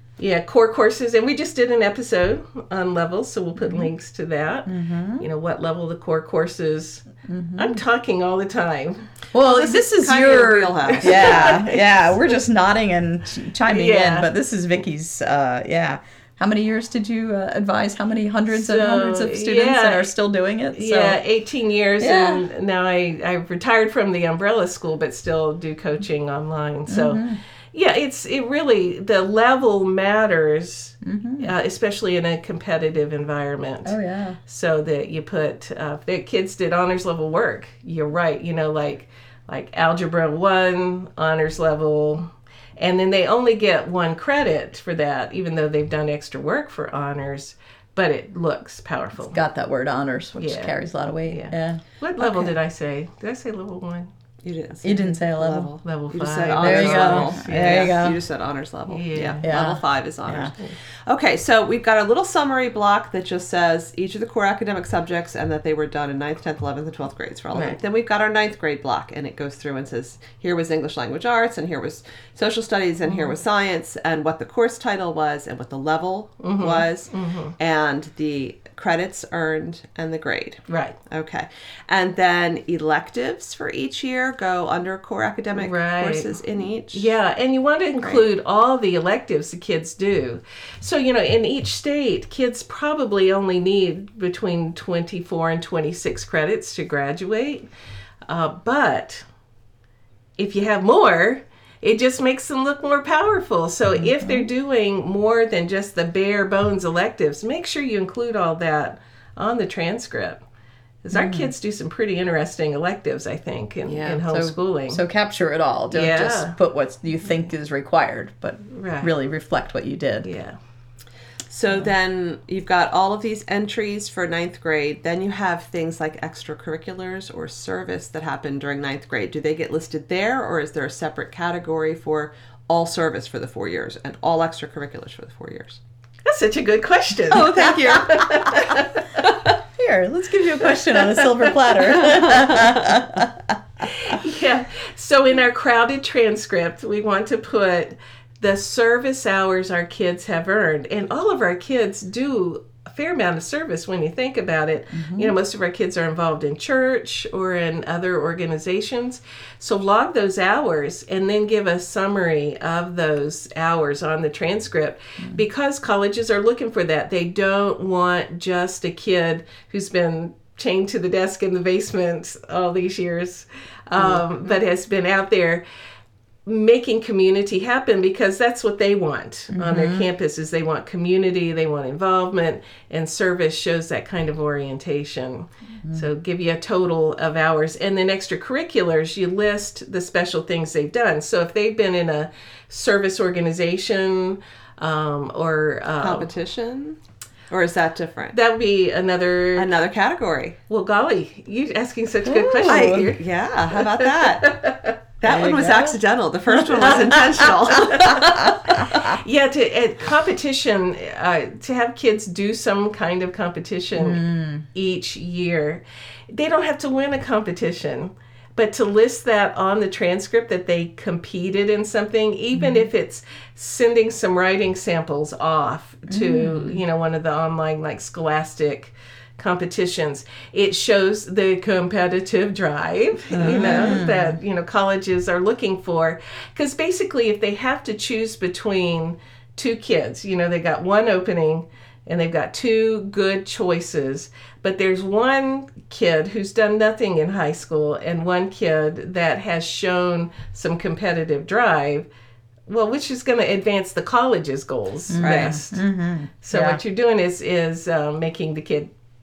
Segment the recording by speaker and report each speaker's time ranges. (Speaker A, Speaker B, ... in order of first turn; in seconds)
Speaker A: 0.2-9.0, 10.9-12.2, 13.7-14.3, 18.5-20.1, 20.7-49.4, 50.4-54.1, 55.8-58.0, 58.9-59.5, 73.1-73.3, 76.4-77.5, 80.7-81.0, 85.5-86.4, 86.9-97.7, 98.3-99.3, 100.4-110.4, 111.0-115.0, 115.9-116.6, 118.7-119.1, 120.2-120.6, 136.2-139.3, 141.0-142.6, 143.8-175.6, 176.4-196.3, 198.3-199.7, 200.7-203.2, 204.0-204.7, 208.9-214.2, 214.7-252.1, 252.7-255.8, 256.4-258.9
Speaker B: 3.6-3.9, 4.7-5.3, 7.3-7.8, 9.3-21.2, 22.0-22.4, 26.9-27.4, 31.0-31.5, 33.9-34.4, 49.3-52.5, 54.8-55.7, 56.6-58.2, 59.4-60.5, 104.0-104.5, 111.1-111.5, 114.3-120.3, 139.8-143.6, 154.9-155.3, 179.5-180.1, 202.3-203.1, 205.2-206.0, 206.8-208.8, 214.0-214.7, 222.6-222.9, 226.1-226.8, 233.4-234.4, 255.1-256.8
Speaker C: 9.4-11.5, 54.4-87.1, 113.9-114.2, 121.5-135.8, 137.3-138.7, 196.0-197.0, 197.5-198.4, 199.6-200.6, 202.7-204.6, 205.2-209.1, 233.4-234.0, 255.2-255.6